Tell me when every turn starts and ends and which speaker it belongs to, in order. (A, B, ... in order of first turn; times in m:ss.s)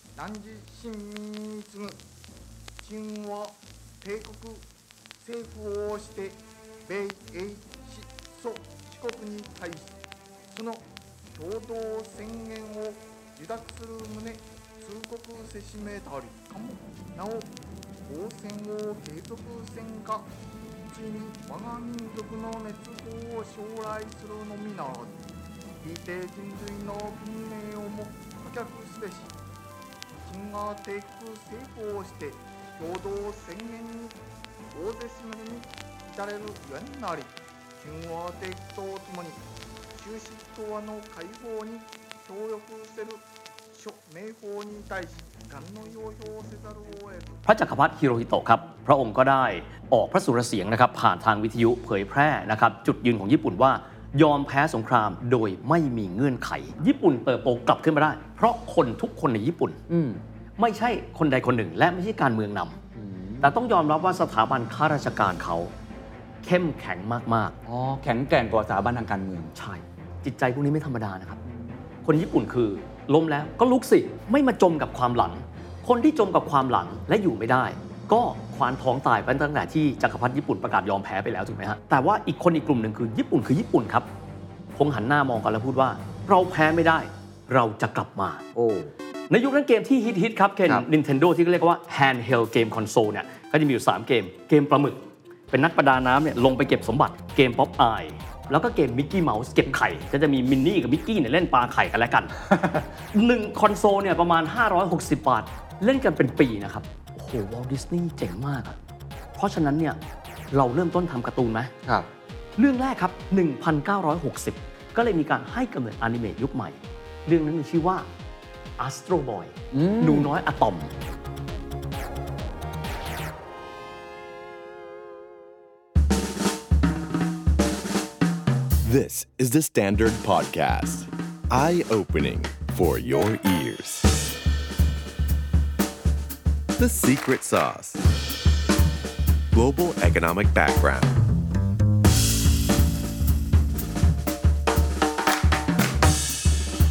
0:00.2-0:02.0 A
0:02.8-0:04.6 A
0:05.2-0:10.0 A
0:10.5-0:17.5 A
0:18.0-0:20.3 A
0:20.8-0:25.2 A
0:25.8-0:29.4 A
0:30.2-0:34.2 A
0:34.7-0:39.4 A
0:39.9-0:47.4 A
0:47.4-0:59.8 B
0:59.9-1:00.2 C
1:00.6-1:02.8 B
1:02.9-1:03.5 C
1:03.4-1:05.7 B
1:06.4-1:07.6 B
1:07.6-1:09.5 C
1:09.6-1:11.4 B
1:12.0-1:24.1 B
1:24.8-1:28.4 B
1:28.5-1:28.9 C
1:29.3-1:42.4 B
1:42.5-1:42.8 C
1:43.1-1:48.8 B
1:49.4-1:50.0 B
1:50.5-1:51.7 B
1:52.6-1:58.0 B
1:58.8-2:00.9 B
1:59.7-2:00.3 C
2:08.8-2:14.3 D
2:16.8-2:18.0 D
2:19.5-2:21.2 D